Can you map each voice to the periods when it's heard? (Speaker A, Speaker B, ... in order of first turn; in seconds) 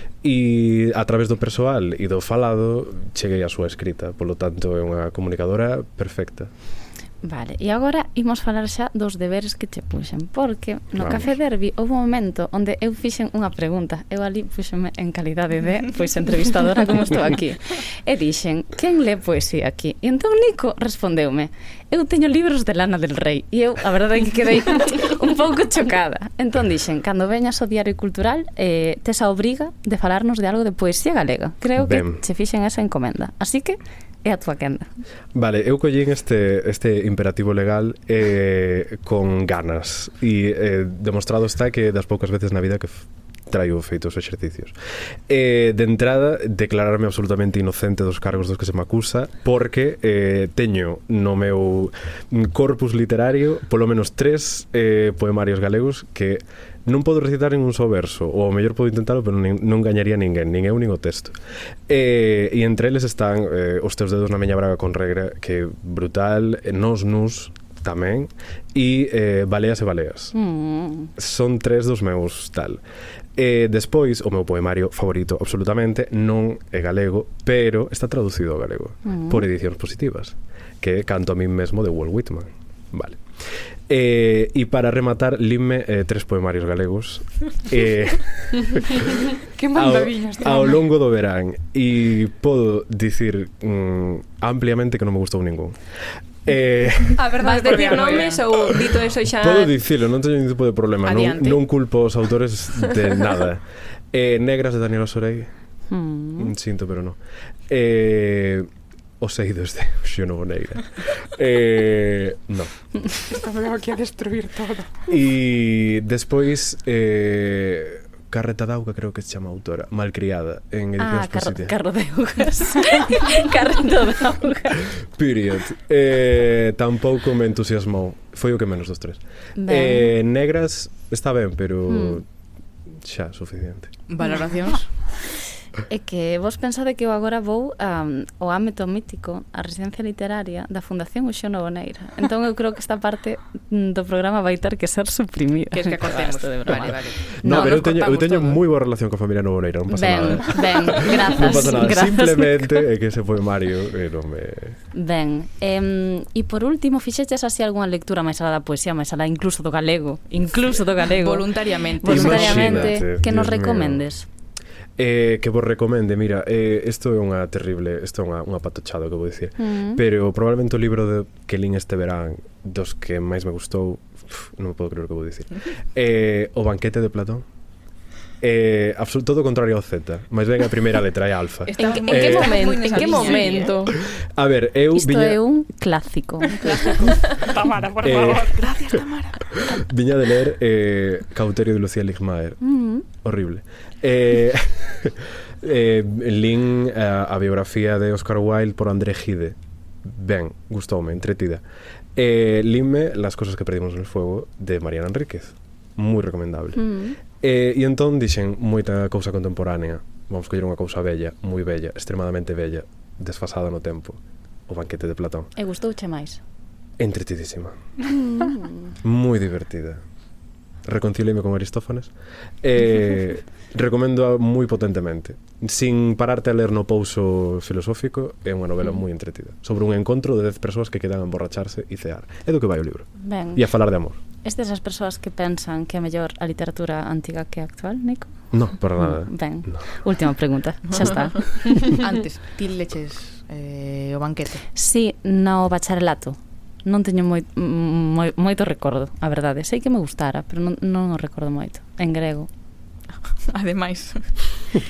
Speaker A: 0.2-6.5, 10.9-11.3, 31.8-32.2, 35.3-44.7, 45.3-70.3, 71.2-72.8, 73.3-88.6, 89.7-97.2, 99.4-105.5, 106.4-108.7, 109.2-112.8, 115.1-121.8, 125.1-132.2, 132.9-134.0, 147.3-154.8, 162.0-164.1, 165.0-177.4, 178.4-182.5, 184.0-185.4, 188.0-189.0, 189.6-192.6, 193.2-201.6, 202.2-215.5, 217.0-217.9, 219.0-220.0, 220.8-234.2, 238.5-240.0
Speaker B: 7.2-34.9, 70.3-71.1, 79.0-79.5, 105.9-106.5, 121.0-124.7, 129.6-130.1, 131.9-132.2, 134.2-135.1, 135.9-148.6, 149.9-152.8, 154.9-164.3, 169.6-170.0, 184.9-186.9, 192.6-193.1, 206.8-207.2, 215.6-216.4, 218.3-218.9, 233.2-233.7, 234.4-241.7, 244.7-252.5
Speaker C: 89.5-90.8, 97.2-98.3, 113.3-114.9, 186.5-188.6
Speaker D: 97.4-98.4, 101.0-101.6, 134.1-134.9, 145.7-148.5, 161.1-163.0, 181.7-183.8, 186.6-187.1, 188.1-189.5, 240.9-244.7, 253.3-254.6
Speaker E: 97.4-99.7, 181.8-183.9